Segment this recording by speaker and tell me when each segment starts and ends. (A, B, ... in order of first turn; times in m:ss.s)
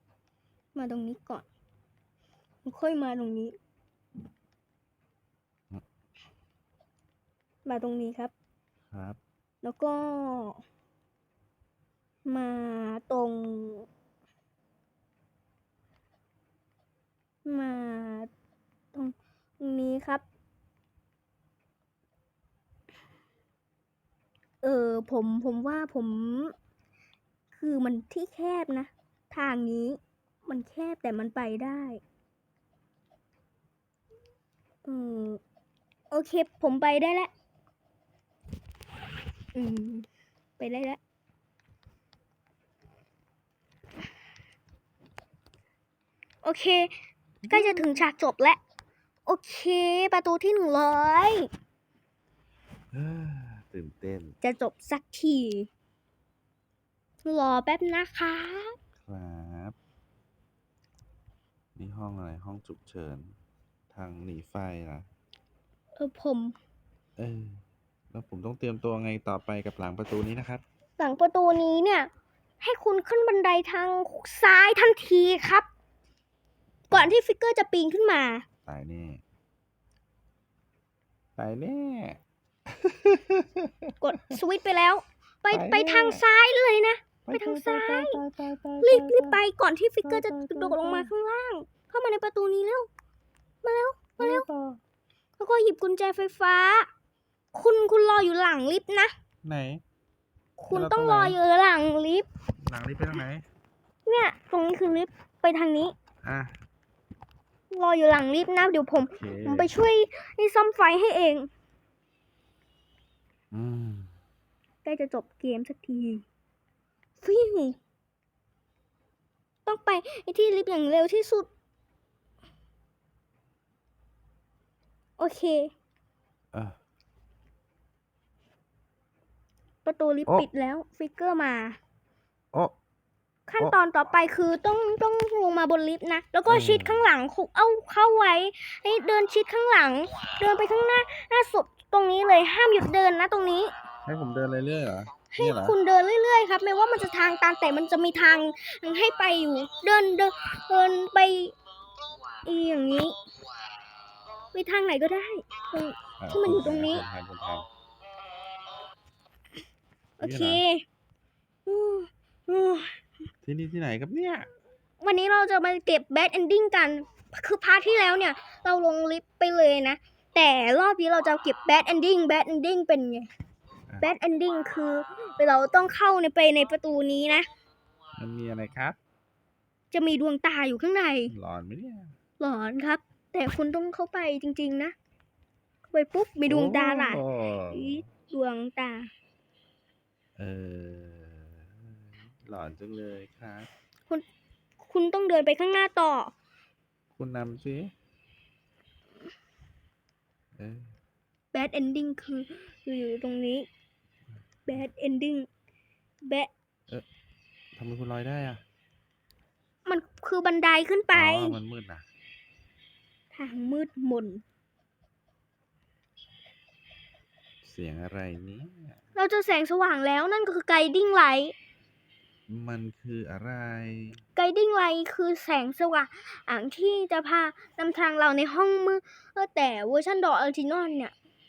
0:00.8-0:01.4 A
0:02.6-0:03.6 A
0:07.6-0:08.3 A
0:08.9-0:09.2 B
0:09.6-0:10.6 A
0:12.2-0:13.9 A
0:17.4-0:18.3 A
0:18.9-0:20.2 A
0:24.6-0:26.6 A
0:27.5-0:32.0 A
0:34.8-0:35.4 A
0:36.1-0:37.3 A
0:39.6-0:40.1 A
0:40.6-0:41.0 A
0:46.4-0:46.9 A
0:47.4-0:48.0 B
0:47.5-0:48.6 A
0:49.3-0:51.5 A
0:52.9-0:54.4 B
0:54.4-0:55.7 A
0:57.2-0:58.8 A
0:59.0-0:59.8 B
1:01.8-1:03.3 B
1:03.9-1:05.1 B
1:06.0-1:06.6 A
1:07.2-1:10.6 B
1:11.0-1:15.7 A
1:16.9-1:18.5 A
1:18.7-1:19.2 B
1:21.4-1:24.0 B
1:24.0-1:28.2 A
1:25.5-1:26.2 B
1:27.3-1:29.4 B
1:28.8-1:32.9 A
1:30.0-1:31.1 B
1:33.6-1:34.5 A
1:34.2-1:34.8 B
1:35.4-1:36.9 A
1:37.5-1:39.1 A
1:39.4-1:39.8 B
1:40.6-1:42.3 A
1:40.7-1:41.4 B
1:42.6-1:43.5 B
1:44.1-1:45.9 A
1:46.2-1:46.5 B
1:47.7-1:51.5 A
1:49.0-1:49.7 B
1:53.5-1:54.1 B
1:54.8-1:56.2 A
1:57.2-1:57.8 A
1:59.7-2:01.5 A
2:05.2-2:05.7 A
2:09.8-2:11.8 A
2:13.5-2:23.7 A
2:16.5-2:17.1 B
2:24.0-2:25.8 B
2:25.3-2:31.6 A
2:32.4-2:33.2 A
2:34.5-2:37.1 A
2:36.2-2:37.7 B
2:40.2-2:40.8 A
2:40.2-2:40.6 B
2:41.7-2:43.0 A
2:43.4-2:44.5 B
2:45.0-2:53.3 A
2:54.0-2:57.5 A
2:58.2-2:59.0 B
2:59.9-3:01.3 A
3:01.3-3:02.1 B
3:02.4-3:05.0 A
3:05.9-3:09.1 A
3:06.5-3:08.0 B
3:10.4-3:13.7 B
3:14.8-3:16.3 A
3:17.1-3:17.9 B
3:20.6-3:20.9 B
3:21.5-3:23.7 A
3:24.7-3:25.5 A
3:27.8-3:28.6 B
3:29.9-3:31.6 A
3:31.1-3:32.1 B
3:33.3-3:34.4 A
3:37.6-3:39.0 B
3:39.2-3:41.6 A
3:42.5-3:44.2 B
3:44.4-3:51.2 A